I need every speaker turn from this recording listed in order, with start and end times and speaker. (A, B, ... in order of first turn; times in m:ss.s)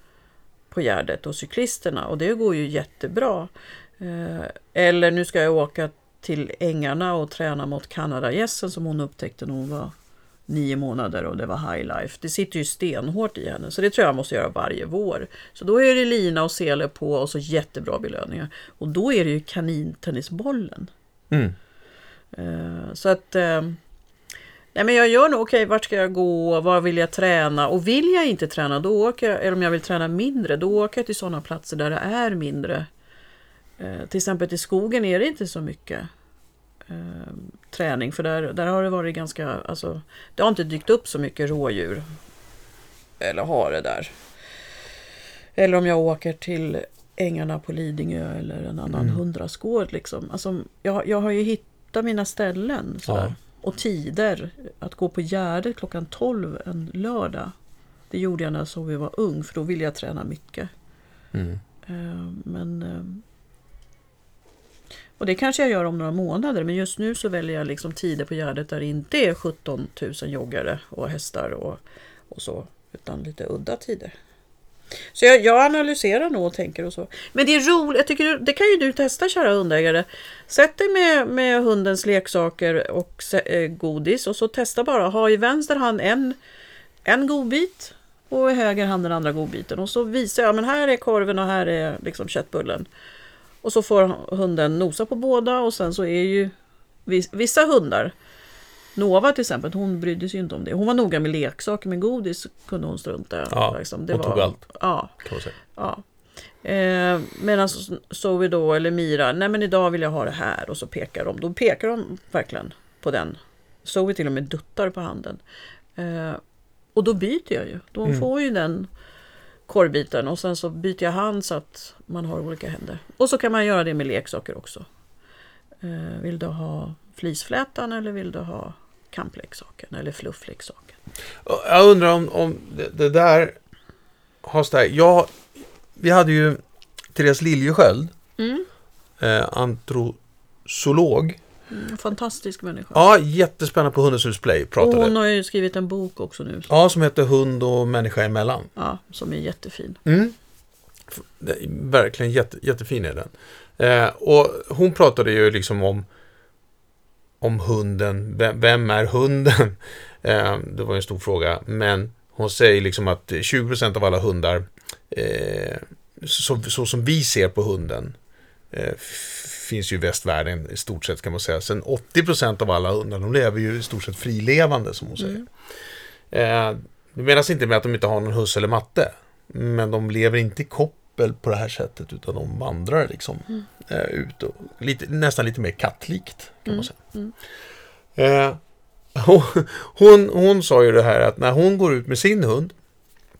0:00.7-0:09.9 A
0:10.5-0:20.9 A
0:22.3-0:23.8 A
0:24.8-0:32.9 A
0:33.8-0:36.1 A
0:36.9-0:42.0 A
0:43.2-0:44.1 A
0:45.6-0:57.5 A
0:48.9-0:49.2 B
0:53.1-0:53.3 B
0:58.1-1:00.7 A
1:01.3-1:01.6 B
1:01.8-1:03.2 A
1:05.2-1:14.1 A
1:15.1-1:26.4 A
1:27.0-1:32.9 A
1:33.6-1:36.5 A
1:37.1-1:38.1 A
1:39.0-1:45.2 A
1:43.5-1:44.6 B
1:45.2-1:45.5 B
1:45.7-1:46.0 A
1:46.6-1:55.4 A
1:56.0-1:56.4 A
1:57.0-1:58.9 A
1:59.7-2:04.9 A
2:05.8-2:11.0 A
2:11.4-2:13.6 B
2:14.4-2:15.4 B
2:16.0-2:16.6 B
2:17.1-2:18.1 B
2:18.4-2:18.7 A
2:19.2-2:21.4 B
2:21.7-2:23.0 A
2:22.9-2:25.1 B
2:24.8-2:26.7 A
2:26.7-2:28.7 B
2:28.8-2:30.0 A
2:30.0-2:30.4 B
2:31.1-2:36.1 B
2:37.4-2:48.2 B
2:48.7-2:55.5 B
2:56.3-3:07.0 B
3:06.7-3:07.3 A
3:08.2-3:08.6 B
3:09.2-3:12.8 B